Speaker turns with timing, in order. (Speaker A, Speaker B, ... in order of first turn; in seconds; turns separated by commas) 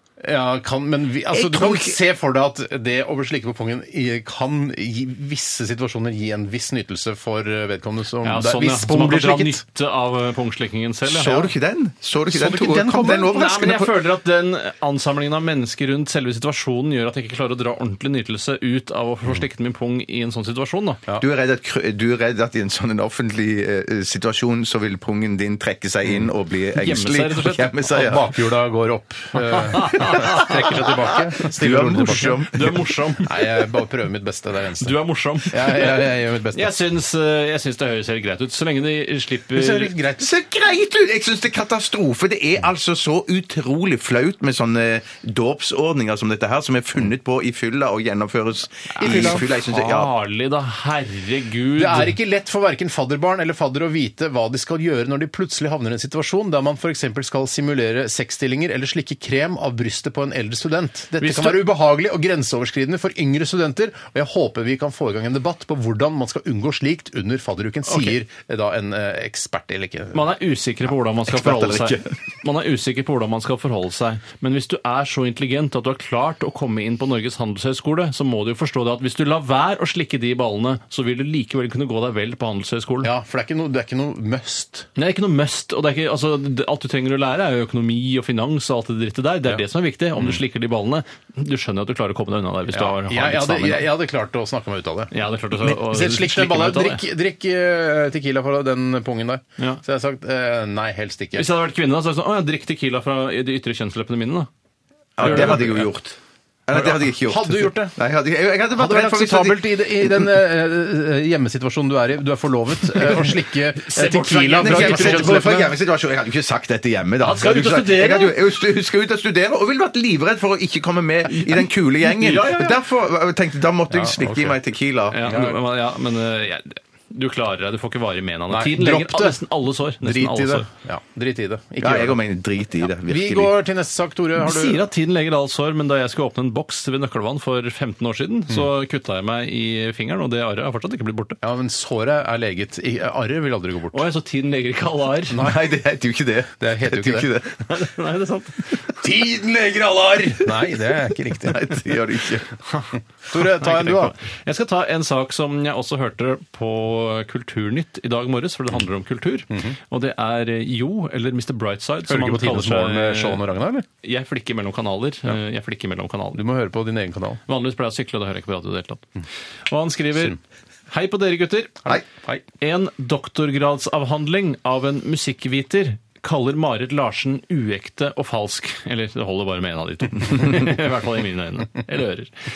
Speaker A: 0.2-9.6, Speaker B: 1.3-2.0, Speaker C: 8.2-11.5, Speaker B: 11.1-14.1, Speaker A: 12.3-13.3, Speaker C: 13.2-21.0, Speaker B: 21.2-28.3, Speaker C: 26.7-27.8, Speaker A: 27.9-32.5, Speaker C: 29.5-30.8, Speaker B: 30.0-30.8, Speaker B: 31.4-32.8, Speaker C: 32.1-33.5, Speaker A: 33.2-35.0, Speaker C: 34.8-39.9, Speaker A: 35.5-36.7, Speaker A: 39.5-40.3, Speaker B: 40.2-50.1, Speaker C: 48.9-52.1, Speaker A: 49.0-49.4, Speaker A: 51.8-70.2, Speaker C: 61.2-61.6, Speaker C: 67.9-68.2, Speaker C: 70.1-83.1, Speaker B: 71.3-72.0, Speaker A: 83.0-84.9, Speaker C: 85.0-93.9, Speaker A: 92.7-95.1, Speaker C: 95.1-97.0, Speaker A: 95.6-101.5, Speaker C: 101.3-104.5, Speaker B: 105.2-110.2, Speaker C: 105.2-105.8, Speaker A: 105.2-105.7, Speaker A: 106.7-108.0, Speaker A: 108.7-115.7, Speaker C: 113.0-115.5, Speaker B: 114.6-125.2, Speaker C: 117.2-118.4, Speaker C: 121.4-122.8, Speaker A: 123.9-124.5, Speaker C: 125.1-130.7, Speaker A: 125.2-125.6, Speaker A: 128.5-129.4, Speaker A: 130.0-132.2, Speaker B: 131.8-133.5, Speaker A: 133.0-134.8, Speaker C: 134.4-141.4, Speaker A: 141.4-144.0, Speaker C: 143.9-145.4, Speaker A: 145.3-145.6, Speaker B: 145.3-147.6, Speaker A: 146.6-147.3, Speaker C: 147.6-149.0, Speaker A: 149.0-151.7, Speaker B: 151.4-152.5, Speaker C: 152.7-163.4, Speaker A: 153.3-154.1, Speaker A: 159.5-159.8, Speaker A: 162.1-163.8, Speaker C: 164.0-166.4, Speaker A: 166.3-167.4, Speaker C: 167.5-169.1, Speaker C: 169.7-170.4, Speaker C: 170.9-171.9, Speaker A: 171.8-172.4, Speaker C: 172.6-182.3